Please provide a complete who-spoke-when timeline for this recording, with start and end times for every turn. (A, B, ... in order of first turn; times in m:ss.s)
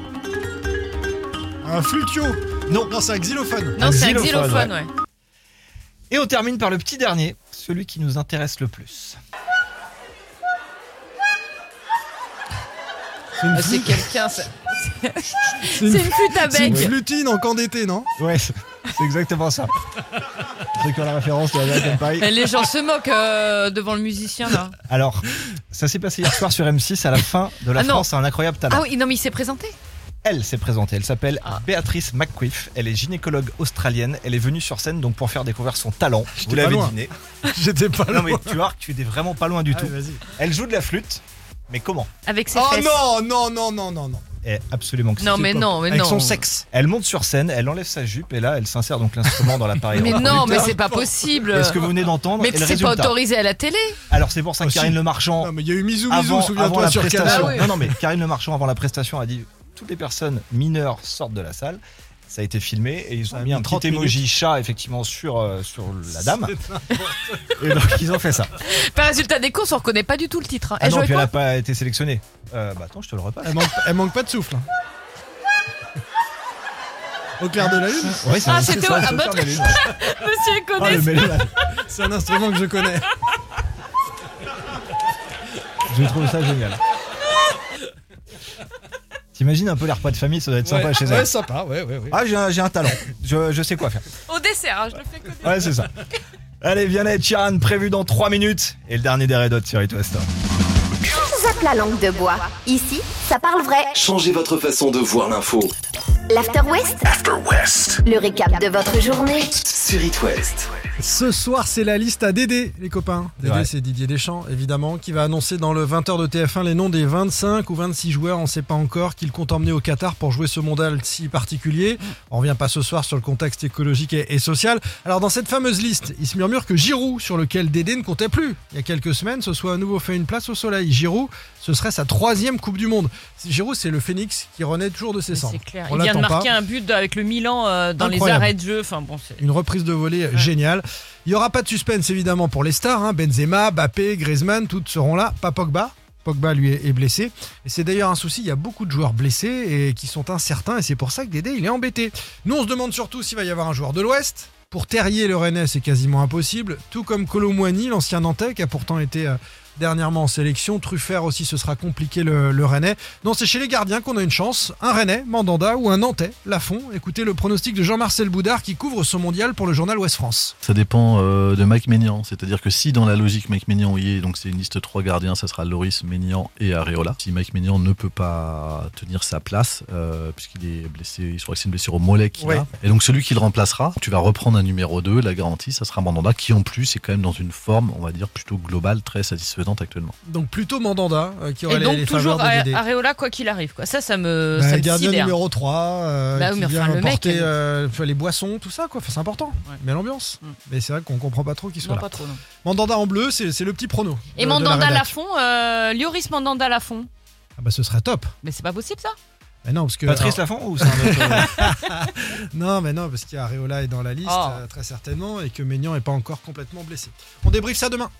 0:01.6-0:03.8 A
0:02.7-0:02.9 B
0:03.8-0:04.9 C
0:03.8-0:04.7 B
0:06.1-0:09.2 B
0:13.4-0:14.1 A
0:13.5-0:16.9 C
0:15.7-0:18.1 A
0:18.2-0:19.7 B
0:20.7-0:22.4 B
0:22.1-0:24.8 C
0:24.9-0:28.9 B
0:27.7-0:28.1 C
0:28.7-0:29.8 C
0:30.2-0:37.1 B
0:36.3-0:38.6 A
0:38.1-0:42.1 B
0:39.7-0:40.2 A
0:42.2-0:43.0 C
0:42.5-0:44.2 A
0:44.4-0:45.6 B
0:45.2-0:46.5 C
0:45.3-0:46.6 A
0:46.7-0:50.7 B
0:49.5-0:51.2 A
0:50.0-0:54.0 C
0:51.5-0:53.2 B
0:54.1-0:55.5 B
0:54.6-0:57.9 A
0:56.1-1:06.5 B
0:57.2-0:57.7 C
1:03.3-1:04.2 A
1:06.4-1:07.3 A
1:07.6-1:08.5 B
1:08.6-1:11.3 C
1:10.8-1:13.6 B
1:13.4-1:14.6 A
1:17.4-1:18.4 A
1:18.2-1:19.8 B
1:18.4-1:21.4 C
1:20.8-1:21.5 B
1:21.8-1:23.1 A
1:25.9-1:26.8 B
1:29.3-1:31.3 B
1:30.6-1:32.2 A
1:32.1-1:34.0 B
1:34.2-1:35.8 C
1:35.4-1:35.9 B
1:36.6-1:40.2 B
1:41.2-1:44.0 D
1:44.0-1:44.4 B
1:44.0-1:45.5 E
1:45.3-1:45.7 B
1:46.3-1:47.1 D
1:47.2-1:47.8 E
1:48.0-1:49.6 D
1:49.6-1:50.7 E
1:51.0-2:16.5 A
1:53.4-1:53.7 B
2:15.3-2:19.4 C
2:18.0-2:18.5 A
2:19.4-2:50.5 A
2:50.6-3:10.1 F
3:02.4-3:02.6 A
3:10.2-3:12.8 A
3:11.7-3:15.4 C
3:14.5-3:25.1 A
3:16.4-3:17.5 C
3:21.8-3:22.4 C
3:24.3-3:27.1 C
3:27.6-3:28.3 A
3:28.4-3:29.2 C
3:29.6-3:38.1 A
3:30.0-3:31.6 B
3:34.2-3:34.6 C